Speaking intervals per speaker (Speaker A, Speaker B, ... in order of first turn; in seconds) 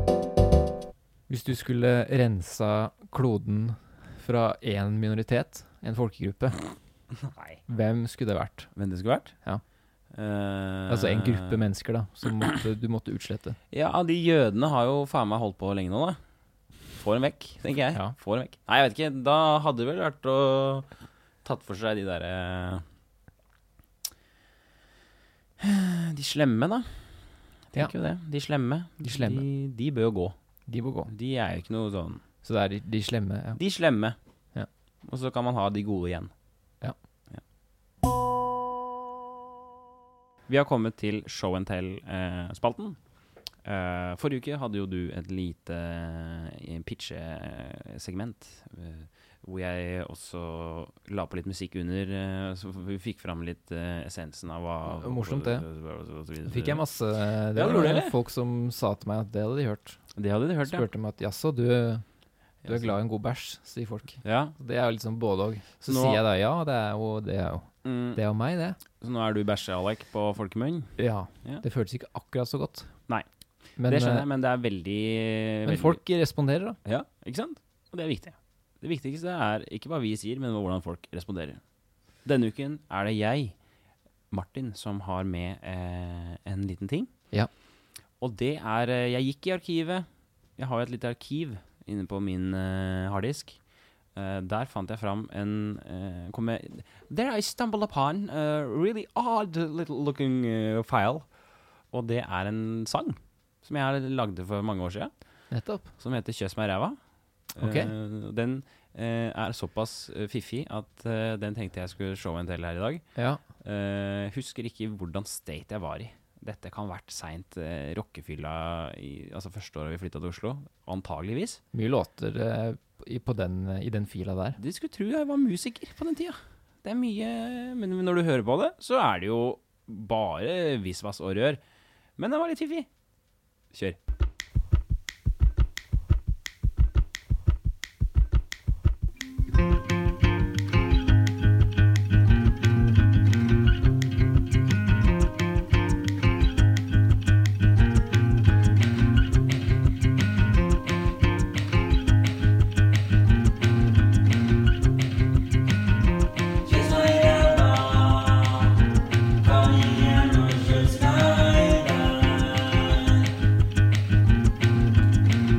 Speaker A: 1.3-6.8, 7.7-8.8, 10.9-13.6, 29.0-29.4, 30.7-31.1, 32.4-33.6, 54.9-55.6, 56.5-68.8, 71.0-73.1, 73.8-74.3, 75.6-76.8, 105.5-105.9, 107.6-107.9, 113.1-113.4, 121.7-124.6
Speaker B: 7.2-7.6, 8.7-9.4, 10.1-11.6, 13.7-16.2, 16.8-22.8, 25.6-30.3, 31.1-32.2, 33.5-34.2, 35.0-36.3, 40.5-43.0, 43.5-56.9, 57.5-58.1, 60.1-60.9, 62.6-63.0, 64.2-64.5, 65.8-66.2, 67.8-68.2, 69.0-71.6, 73.1-76.0, 76.8-81.6, 82.2-83.6, 84.3-87.1, 88.2-93.6, 94.1-113.0, 113.6-121.6, 124.6-131.6, 132.2-132.9, 133.7-134.0, 156.6-163.3